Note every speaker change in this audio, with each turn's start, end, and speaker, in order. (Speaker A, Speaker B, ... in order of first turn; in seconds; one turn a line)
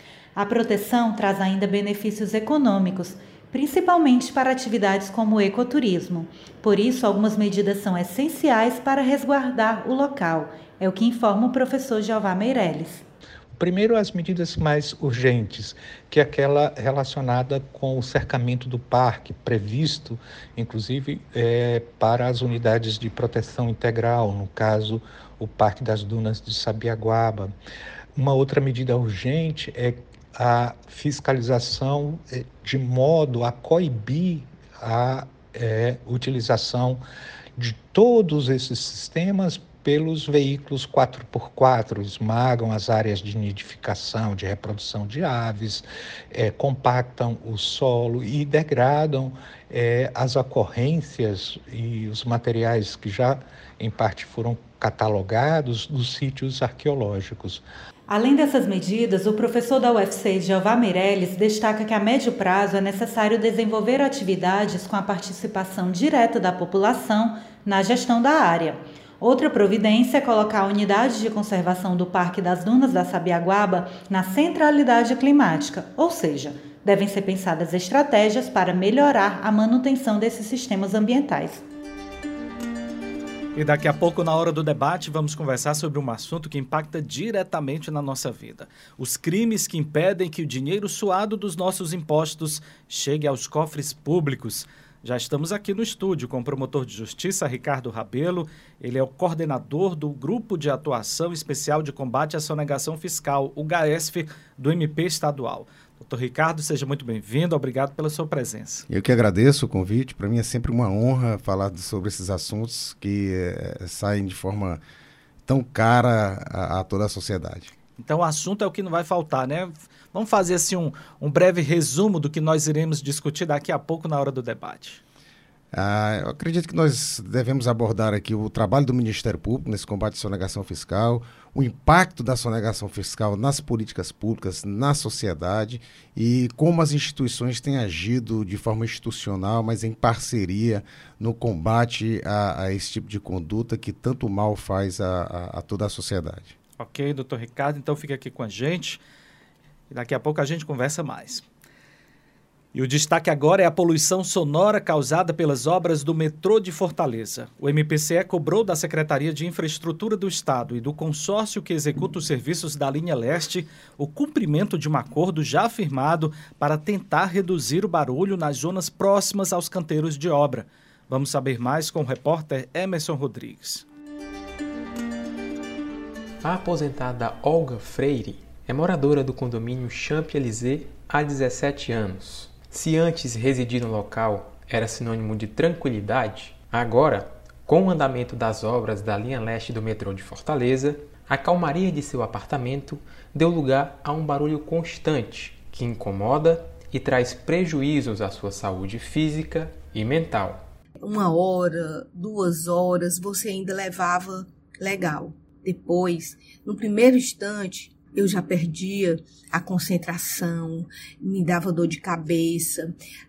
Speaker A: 0.3-13.1
Speaker B: 13.6-27.5
Speaker B: 28.2-37.0
Speaker B: 37.6-57.6
Speaker A: 58.1-81.7
Speaker C: 83.5-108.8
Speaker D: 108.9-114.8
Speaker D: 115.5-117.7
Speaker C: 118.0-125.0
Speaker D: 125.7-146.6
Speaker C: 146.8-149.0
Speaker C: 149.9-151.4
Speaker C: 152.7-173.8
Speaker E: 176.4-200.7
Speaker F: 201.0-212.9